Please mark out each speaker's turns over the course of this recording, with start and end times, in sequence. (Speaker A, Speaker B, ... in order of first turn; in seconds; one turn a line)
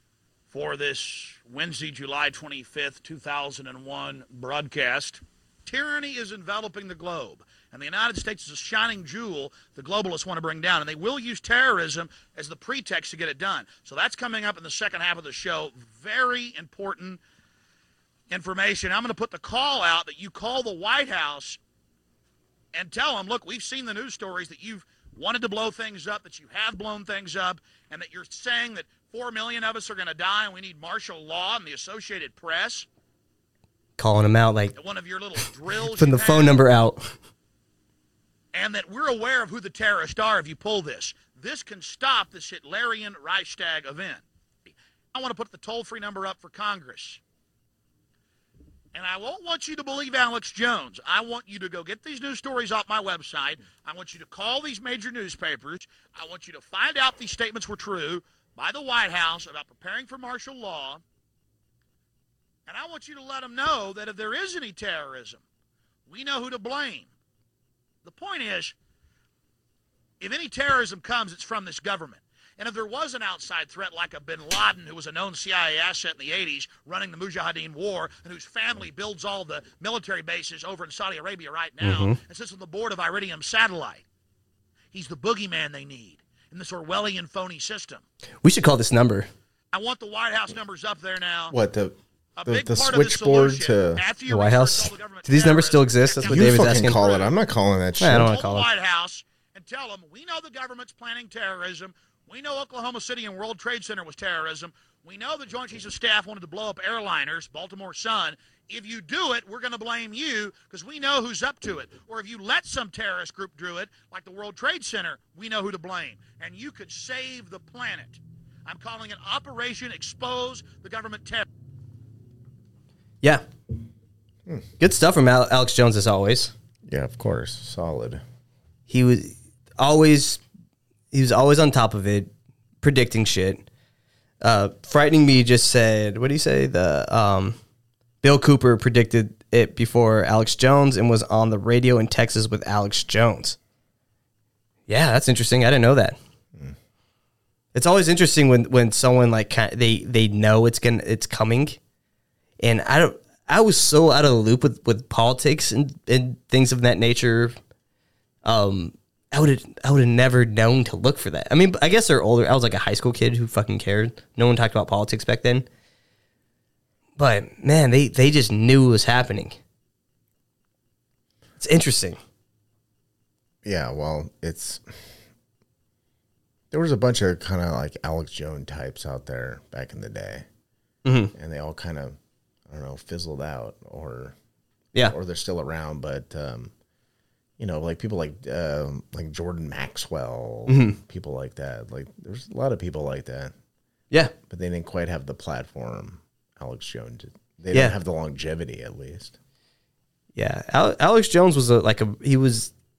Speaker A: 0.5-17.2
Speaker A: 18.3-21.6
Speaker A: 22.7-32.9
Speaker B: 34.0-34.7
Speaker A: 34.7-36.6
Speaker B: 35.9-37.1
Speaker A: 38.5-47.2
Speaker A: 48.9-61.0
Speaker A: 62.7-65.4
Speaker A: 66.1-67.1
Speaker A: 68.0-68.7
Speaker A: 70.2-84.0
Speaker B: 81.8-82.2
Speaker A: 84.9-88.0
Speaker B: 88.4-89.3
Speaker A: 89.7-91.5
Speaker C: 91.5-94.0
Speaker A: 92.4-97.3
Speaker B: 94.3-97.0
Speaker C: 96.2-98.3
Speaker B: 98.0-98.7
Speaker A: 98.1-121.5
Speaker B: 124.8-126.5
Speaker C: 126.9-128.2
Speaker B: 128.9-130.4
Speaker B: 131.1-132.3
Speaker B: 132.8-133.6
Speaker B: 134.4-137.6
Speaker B: 138.2-143.6
Speaker B: 144.9-146.2
Speaker B: 147.7-151.8
Speaker B: 152.6-157.5
Speaker B: 158.4-165.7
Speaker B: 167.2-169.6
Speaker B: 171.6-172.2
Speaker C: 173.6-175.0
Speaker C: 176.7-180.4
Speaker B: 181.0-181.3
Speaker C: 181.3-182.2
Speaker C: 182.7-184.3
Speaker C: 185.1-186.7
Speaker C: 187.6-193.5
Speaker B: 190.7-191.0
Speaker C: 194.5-199.3
Speaker B: 200.3-202.7